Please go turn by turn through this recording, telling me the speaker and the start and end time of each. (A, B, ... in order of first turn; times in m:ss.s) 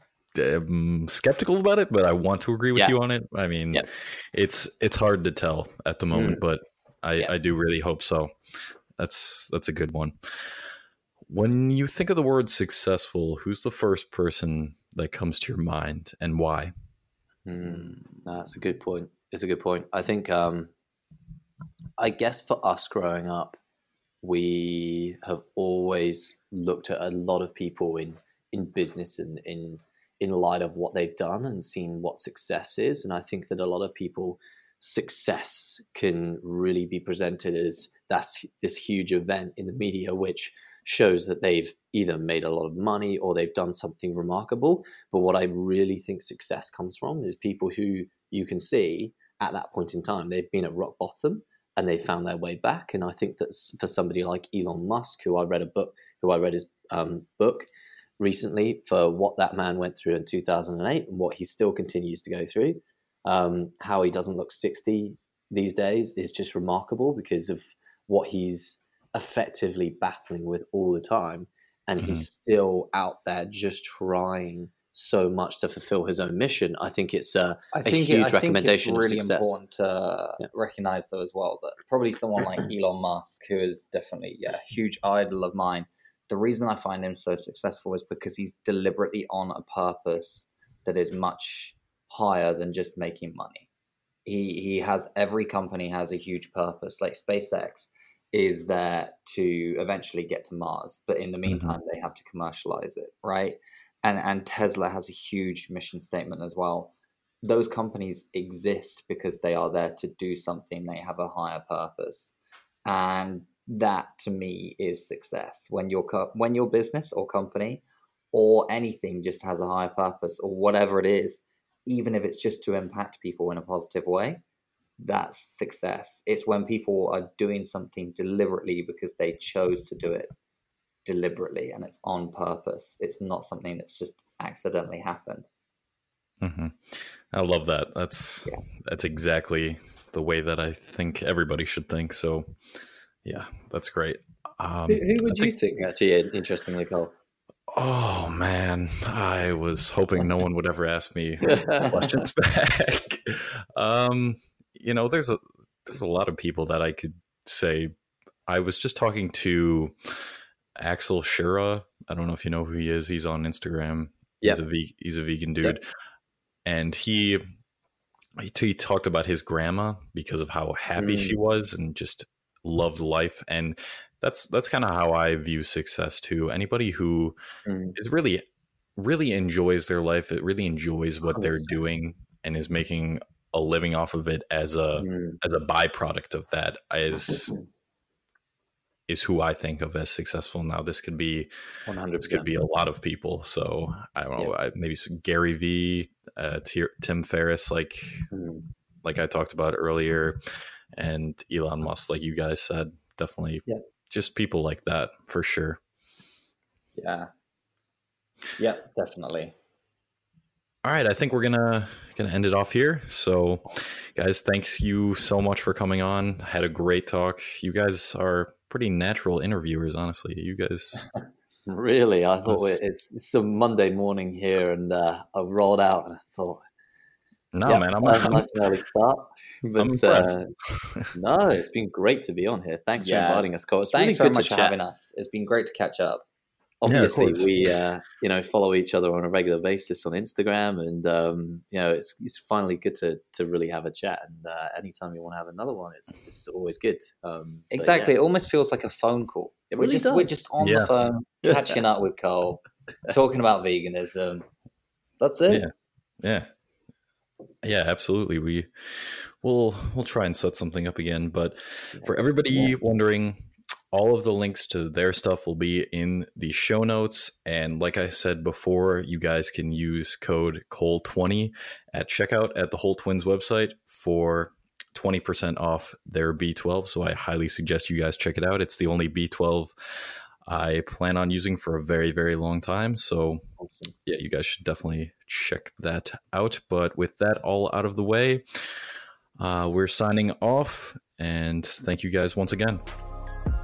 0:00.3-0:10.6 A
0:06.1-0:06.4 B
0:11.2-0:16.7 A
0:17.4-0:20.7 B
0:22.0-0:23.6 B
0:24.2-0:57.7 B
0:58.2-1:19.6 B
1:17.7-1:33.7 C
1:34.2-1:52.3 C
1:41.5-1:41.8 A
1:52.8-2:04.4 C
2:05.0-2:10.3 C
2:11.0-2:15.5 C
2:16.4-2:25.5 A
2:24.9-2:27.1 B
2:27.7-2:37.9 A
2:31.4-2:31.9 B
2:38.5-2:45.8 A
2:46.6-2:47.4 A
2:48.4-2:57.4 A
2:51.0-2:51.4 B
2:57.6-2:58.0 B
2:58.0-2:58.4 A
2:59.0-3:07.5 A
3:01.3-3:01.7 B
3:05.0-3:05.4 B
3:09.1-3:11.5 A
3:11.8-3:12.5 B
3:12.2-3:18.3 A
3:18.3-3:18.6 B
3:19.0-3:20.4 A
3:20.9-3:25.8 A
3:27.0-3:27.3 C
3:28.6-3:29.5 C
3:30.8-3:41.1 A
3:41.7-3:46.6 B
3:42.4-3:42.8 A
3:47.5-3:48.5 A
3:47.6-3:50.5 B
3:49.8-3:51.1 A
3:51.1-3:54.8 B
3:53.0-3:56.2 C
3:56.8-4:08.1 B
3:56.8-3:57.5 A
4:07.7-4:14.4 C
4:09.7-4:10.5 B
4:10.6-4:10.9 A
4:11.4-4:11.7 B
4:15.2-4:15.7 C
4:15.5-4:16.5 A
4:17.6-4:43.4 A
4:43.6-4:43.9 B
4:44.0-4:52.8 A